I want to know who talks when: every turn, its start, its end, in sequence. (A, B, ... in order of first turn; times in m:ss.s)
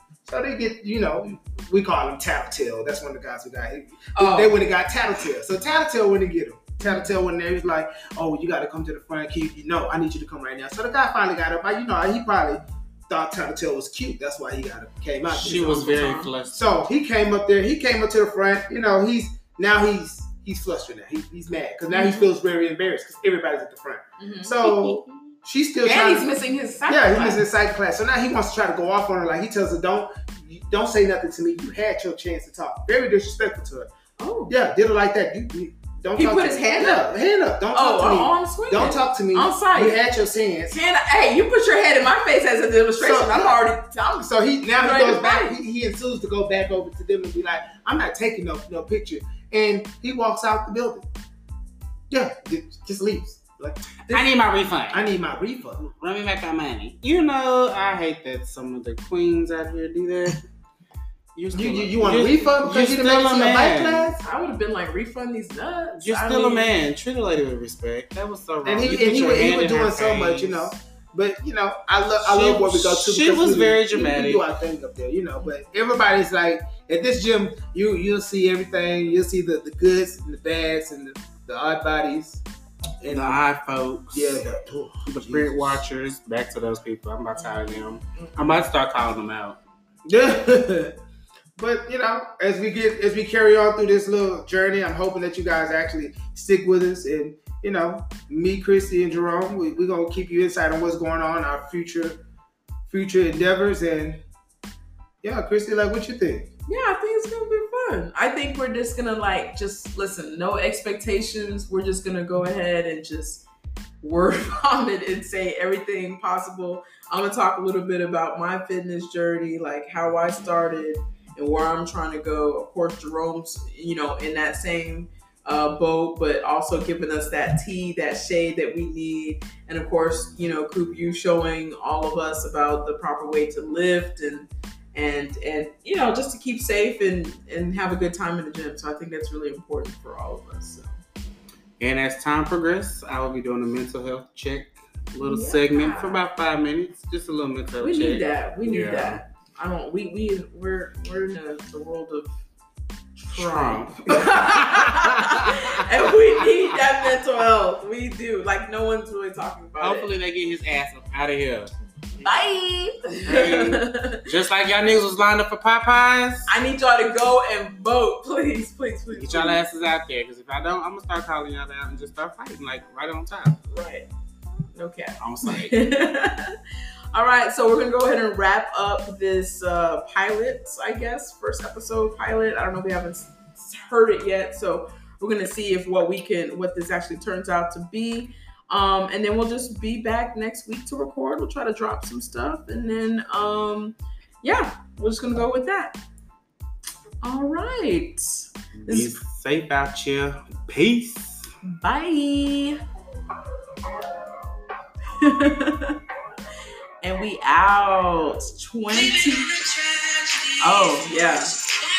0:00.2-0:15.9 A
0:04.1-0:04.6 B
0:06.8-0:07.1 B
0:15.3-0:16.8 C
0:15.4-0:16.3 B
0:16.5-0:26.3 A
0:21.9-0:22.3 B
0:24.2-0:25.2 B
0:25.8-0:27.4 B
0:26.9-0:33.9 A
0:34.2-0:34.5 B
0:34.5-0:40.8 A
0:36.2-0:37.1 B
0:37.7-0:40.0 B
0:40.7-0:45.5 B
0:43.0-0:43.6 A
0:44.2-0:51.1 A
0:52.1-0:54.3 A
0:54.1-0:55.0 C
0:54.9-0:55.8 A
0:55.8-1:00.4 C
1:01.3-1:04.2 C
1:01.5-1:04.2 A
1:04.2-1:06.7 B
1:06.0-1:10.7 C
1:08.6-1:22.4 A
1:12.2-1:14.4 C
1:23.0-1:23.4 A
1:23.0-1:24.4 C
1:24.1-1:25.8 A
1:25.0-1:29.6 C
1:27.4-1:28.3 B
1:30.0-1:31.0 A
1:31.6-1:42.2 A
1:42.9-1:44.2 A
1:45.2-1:46.5 A
1:46.7-1:53.4 B
1:54.0-2:21.0 B
2:21.8-2:29.2 C
2:25.2-2:26.2 B
2:27.8-2:32.3 B
2:33.2-2:40.1 B
2:33.3-2:36.1 C
2:39.8-2:41.7 C
2:42.2-2:44.3 B
2:43.2-2:46.5 C
2:46.5-2:49.6 B
2:49.1-2:53.6 C
2:53.7-2:54.1 B
2:54.7-2:56.6 B
2:55.2-2:55.8 C
2:57.1-3:16.0 B
3:17.2-3:19.2 B
3:18.8-3:21.5 C
3:21.6-3:22.8 B
3:25.1-3:26.0 B
3:27.0-3:29.6 B
3:30.6-3:31.6 B